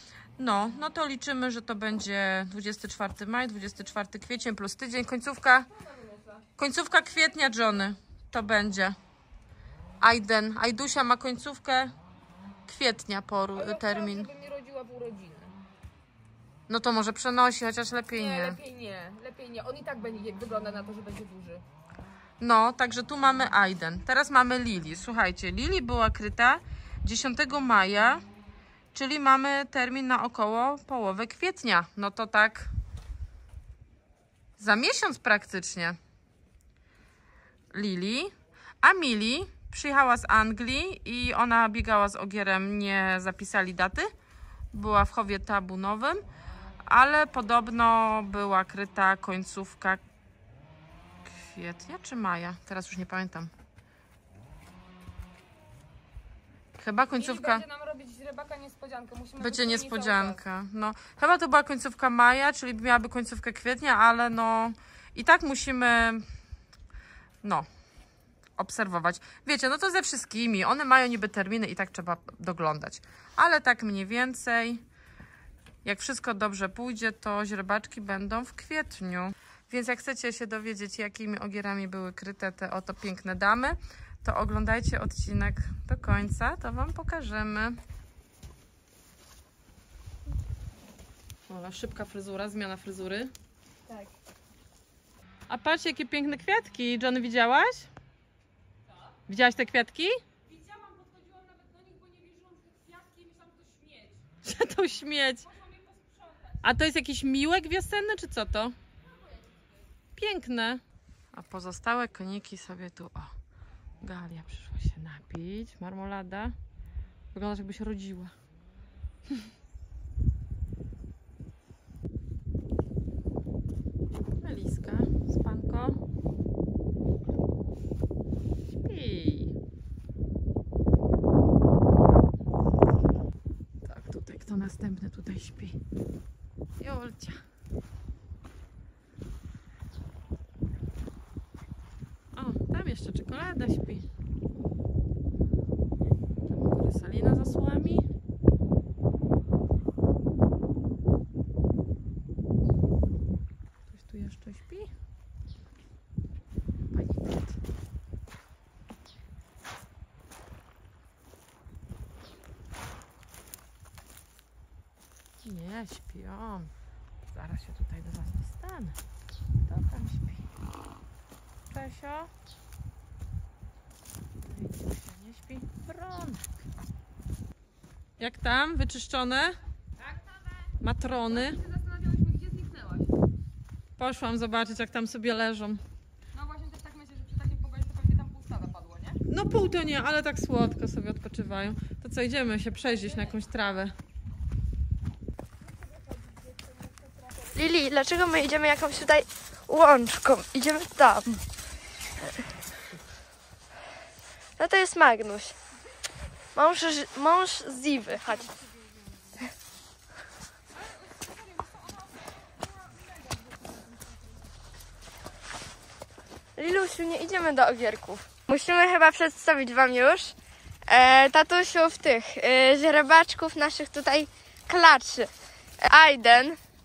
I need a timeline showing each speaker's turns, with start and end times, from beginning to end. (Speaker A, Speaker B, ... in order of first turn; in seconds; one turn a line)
Speaker A: 0.4-5.7
Speaker B: 5.9-6.4
Speaker A: 6.6-9.0
Speaker A: 10.0-11.9
Speaker A: 12.7-14.3
Speaker B: 13.5-15.6
Speaker A: 16.7-18.6
Speaker B: 18.1-21.6
Speaker A: 22.4-28.2
Speaker A: 28.9-32.7
Speaker A: 34.6-36.0
Speaker A: 37.7-44.1
Speaker A: 44.7-46.2
Speaker A: 46.9-50.0
Speaker A: 51.3-53.5
Speaker A: 56.8-57.7
Speaker B: 57.1-60.4
Speaker A: 59.4-66.2
Speaker A: 68.6-74.8
Speaker A: 75.8-87.8
Speaker A: 91.5-93.3
Speaker A: 95.5-97.9
Speaker A: 99.3-100.2
Speaker B: 100.5-104.2
Speaker A: 104.4-105.5
Speaker B: 105.7-106.3
Speaker A: 106.6-108.8
Speaker A: 110.2-110.8
Speaker A: 111.3-113.3
Speaker A: 114.0-116.5
Speaker A: 117.3-118.3
Speaker A: 124.4-126.0
Speaker A: 128.8-129.5
Speaker A: 133.8-135.8
Speaker A: 136.8-137.4
Speaker A: 142.3-144.1
Speaker A: 146.5-148.1
Speaker A: 153.9-154.9
Speaker A: 156.9-157.6
Speaker A: 165.4-166.7
Speaker A: 167.3-169.0
Speaker A: 169.7-170.4
Speaker A: 171.7-172.3
Speaker A: 174.5-176.4
Speaker A: 178.2-179.6
Speaker A: 180.8-181.6
Speaker B: 181.3-183.1
Speaker A: 184.0-185.8
Speaker B: 186.3-189.2
Speaker A: 189.3-193.9
Speaker B: 196.6-197.3
Speaker C: 197.5-201.4
Speaker C: 204.6-205.6
Speaker C: 206.5-208.5
Speaker B: 210.8-212.2
Speaker B: 212.9-213.7
Speaker C: 216.6-220.3
Speaker C: 220.9-226.6